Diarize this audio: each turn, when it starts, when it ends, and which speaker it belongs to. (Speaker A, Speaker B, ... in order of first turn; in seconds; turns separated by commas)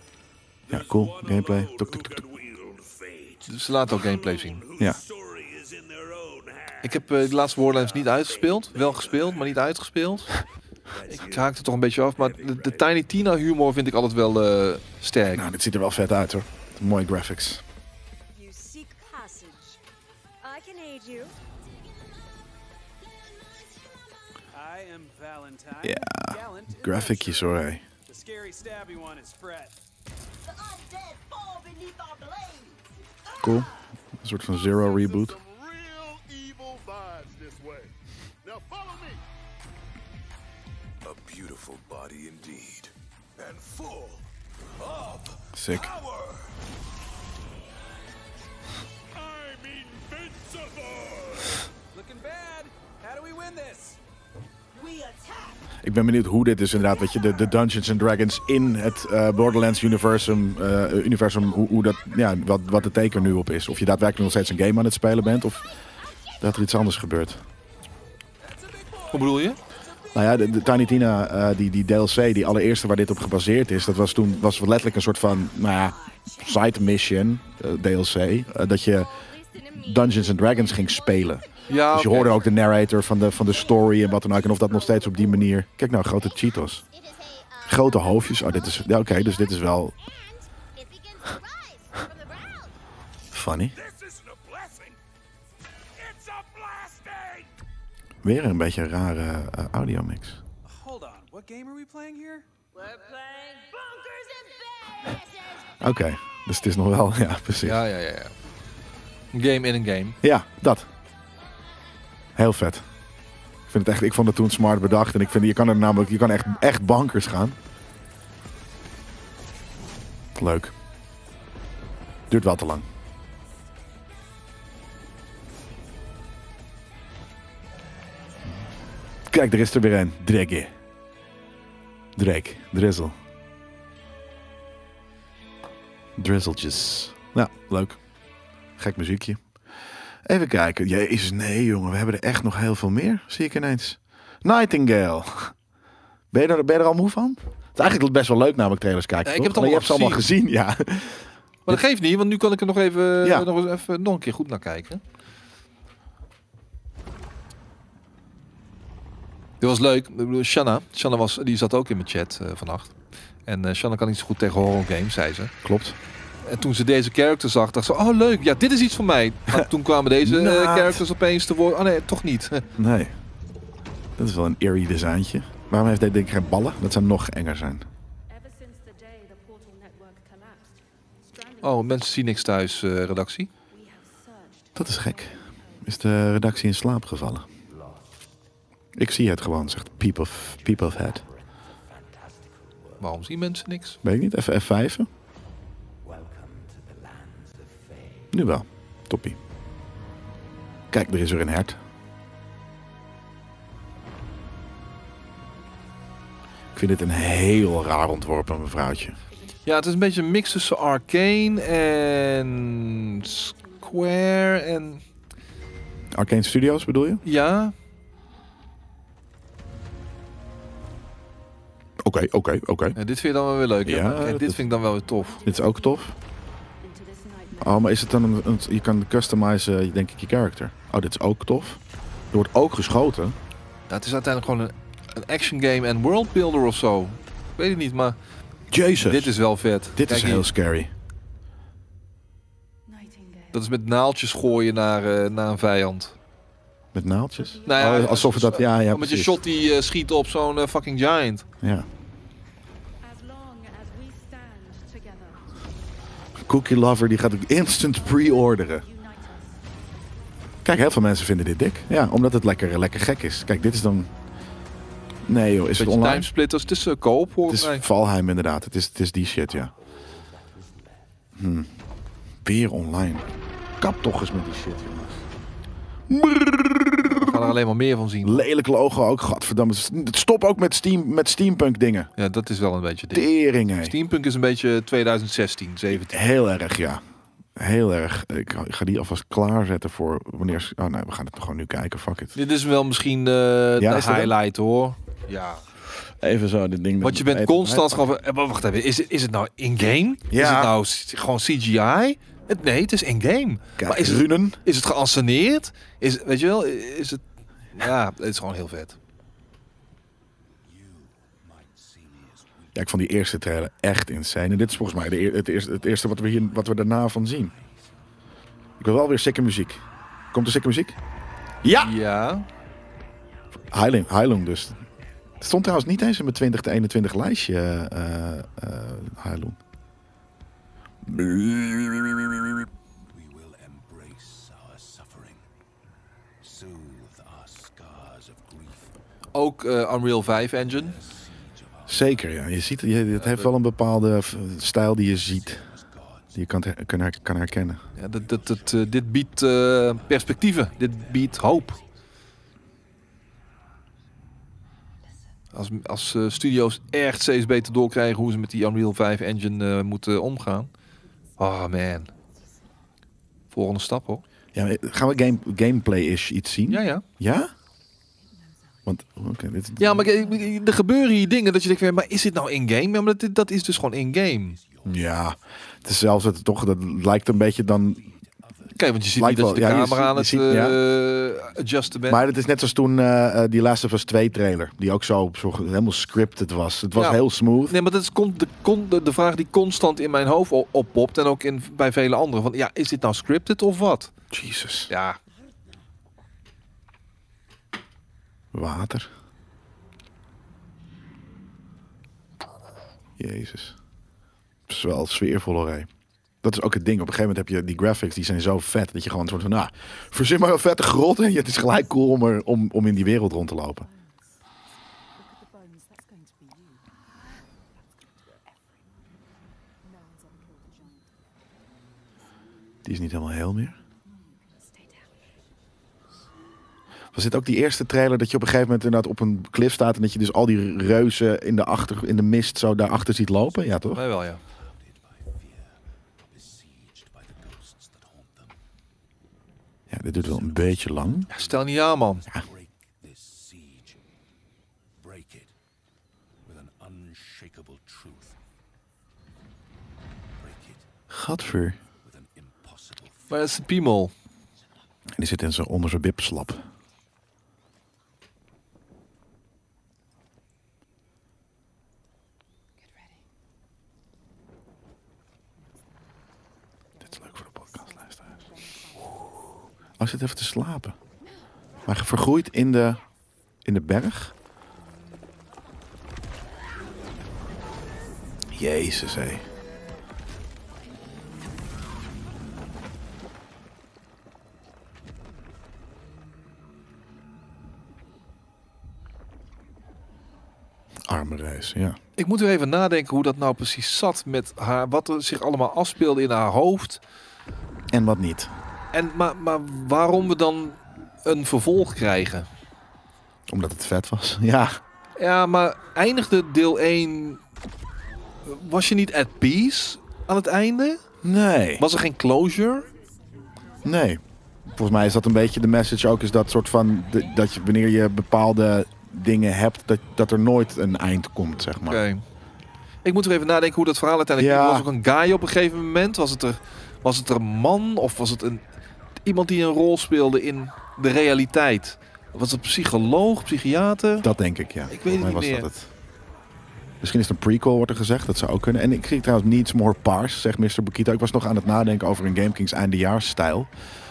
Speaker A: 0.7-9.6, Speaker B: 0.7-2.2, Speaker C: 3.5-4.6, Speaker C: 6.8-10.3, Speaker A: 10.9-11.5, Speaker C: 11.1-15.5, Speaker A: 12.2-12.9, Speaker B: 15.3-17.6, Speaker D: 18.3-19.8, Speaker D: 20.4-21.3, Speaker E: 24.5-29.8, Speaker B: 25.8-27.8, Speaker D: 30.4-33.8, Speaker B: 33.4-35.4, Speaker A: 34.6-37.9, Speaker A: 38.4-39.2, Speaker A: 41.0-46.6, Speaker B: 45.5-45.9, Speaker A: 49.1-51.6, Speaker E: 51.9-54.0, Speaker D: 54.7-55.7, Speaker B: 55.8-65.7, Speaker B: 66.4-67.4, Speaker A: 68.5-69.3, Speaker C: 69.1-69.6, Speaker B: 70.1-79.2, Speaker D: 76.0-76.5, Speaker D: 79.0-82.7, Speaker B: 79.8-86.8, Speaker C: 81.7-82.4, Speaker D: 83.3-85.5, Speaker D: 86.8-92.8, Speaker B: 87.7-89.9, Speaker B: 93.3-93.8, Speaker A: 93.8-95.0, Speaker A: 96.0-97.5, Speaker B: 98.2-100.4, Speaker E: 100.7-102.5, Speaker D: 102.7-105.8, Speaker B: 105.8-107.8, Speaker C: 107.6-108.3, Speaker C: 109.3-110.2, Speaker B: 110.2-110.9, Speaker B: 112.4-112.9, Speaker B: 113.7-117.6, Speaker B: 120.3-120.7, Speaker B: 122.3-122.9, Speaker B: 129.3-130.7, Speaker B: 132.2-133.2, Speaker B: 136.2-138.0, Speaker B: 138.8-139.4, Speaker B: 140.2-145.6, Speaker B: 146.3-151.8, Speaker C: 149.2-150.2, Speaker C: 151.7-155.0, Speaker B: 153.2-153.5, Speaker C: 159.6-162.9, Speaker C: 163.5-165.5, Speaker B: 165.6-166.0, Speaker C: 166.4-172.7, Speaker B: 170.2-171.0, Speaker B: 172.8-173.2, Speaker B: 174.2-177.9, Speaker D: 178.3-182.1, Speaker C: 181.6-183.5, Speaker D: 183.7-186.2, Speaker B: 184.8-187.5, Speaker A: 187.7-188.3, Speaker B: 189.0-191.2, Speaker A: 190.5-193.1, Speaker C: 193.0-194.0, Speaker B: 194.0-195.1, Speaker A: 196.0-198.3, Speaker B: 198.3-199.4, Speaker B: 200.9-201.8, Speaker B: 206.8-209.2, Speaker C: 209.7-215.0, Speaker B: 216.1-217.2, Speaker C: 217.2-217.8, Speaker B: 222.0-223.0, Speaker C: 223.0-225.4, Speaker B: 223.8-224.6, Speaker B: 225.4-226.1, Speaker D: 226.8-227.9, Speaker B: 227.6-231.8, Speaker B: 232.3-233.4, Speaker C: 233.9-238.2, Speaker B: 238.7-239.3, Speaker C: 239.1-240.5, Speaker B: 240.0-240.9, Speaker D: 242.9-243.8, Speaker C: 243.5-246.2, Speaker B: 246.9-249.4, Speaker C: 247.7-251.4, Speaker B: 251.6-251.9, Speaker D: 253.0-255.5, Speaker B: 256.4-258.9, Speaker D: 258.2-259.6, Speaker B: 260.6-264.1, Speaker B: 265.3-266.3, Speaker C: 265.8-267.9, Speaker B: 267.5-269.7, Speaker A: 270.4-271.0, Speaker B: 271.4-271.7, Speaker B: 272.4-273.3, Speaker B: 273.8-275.2, Speaker B: 276.1-277.4, Speaker C: 277.0-278.5, Speaker B: 278.2-282.1, Speaker C: 282.2-283.3, Speaker B: 283.1-283.9, Speaker C: 283.8-286.2, Speaker B: 285.9-287.0, Speaker B: 287.6-292.4, Speaker C: 292.4-295.6, Speaker B: 293.8-294.3, Speaker A: 295.3-295.9, Speaker B: 296.1-298.0, Speaker C: 297.0-309.0, Speaker B: 300.3-300.8, Speaker B: 303.8-304.6, Speaker A: 310.6-312.9, Speaker B: 312.8-317.5, Speaker A: 315.8-316.4, Speaker A: 317.4-318.0, Speaker B: 318.8-319.8, Speaker B: 320.3-321.0, Speaker B: 321.6-322.0, Speaker C: 321.8-322.5, Speaker B: 323.7-324.8, Speaker B: 325.4-329.6, Speaker B: 331.1-332.7, Speaker A: 333.1-335.5, Speaker A: 336.4-338.9, Speaker C: 339.3-341.0, Speaker A: 340.6-342.3, Speaker B: 341.9-345.6, Speaker C: 343.2-343.5, Speaker A: 345.1-346.4, Speaker B: 346.4-347.8, Speaker C: 348.0-351.8, Speaker A: 348.1-351.9, Speaker C: 355.5-360.7, Speaker C: 361.4-362.1, Speaker C: 363.5-364.2, Speaker B: 364.5-367.5, Speaker C: 366.7-367.1, Speaker D: 368.2-369.1, Speaker B: 368.9-370.1, Speaker C: 369.8-374.6, Speaker A: 373.8-376.2, Speaker B: 374.9-378.1, Speaker A: 377.3-379.4, Speaker C: 378.7-382.2, Speaker B: 379.1-380.8, Speaker A: 381.0-382.3, Speaker B: 382.1-387.8, Speaker C: 386.9-394.1, Speaker B: 394.3-394.9, Speaker C: 394.9-395.2, Speaker B: 398.5-399.1, Speaker B: 403.2-403.8, Speaker B: 404.7-405.9, Speaker B: 406.4-413.9, Speaker D: 413.8-414.3, Speaker D: 415.2-416.9, Speaker D: 419.8-421.1, Speaker B: 422.9-423.8, Speaker D: 424.1-425.1, Speaker B: 427.1-434.0, Speaker C: 433.9-434.4, Speaker A: 434.5-438.6, Speaker B: 439.9-441.3, Speaker A: 440.1-444.0, Speaker C: 441.3-442.2, Speaker A: 445.0-445.5, Speaker A: 446.4-448.4, Speaker A: 450.3-450.9, Speaker B: 451.1-451.8, Speaker A: 452.0-453.4, Speaker C: 453.3-454.1, Speaker B: 455.2-456.6, Speaker D: 466.9-469.2, Speaker B: 467.1-468.2, Speaker B: 470.0-471.0, Speaker B: 471.9-473.0, Speaker B: 473.6-474.3, Speaker B: 478.5-479.4, Speaker B: 491.1-492.0, Speaker C: 492.2-497.0, Speaker B: 497.9-498.5, Speaker C: 498.9-502.5, Speaker B: 503.5-504.8, Speaker C: 505.2-507.4, Speaker C: 508.5-511.0, Speaker B: 511.2-511.9, Speaker C: 511.8-512.9, Speaker B: 513.8-522.0, Speaker C: 521.9-522.2, Speaker C: 523.0-528.6, Speaker B: 524.4-524.9, Speaker C: 529.2-534.3, Speaker B: 534.2-535.9, Speaker C: 534.9-535.7, Speaker B: 537.0-543.7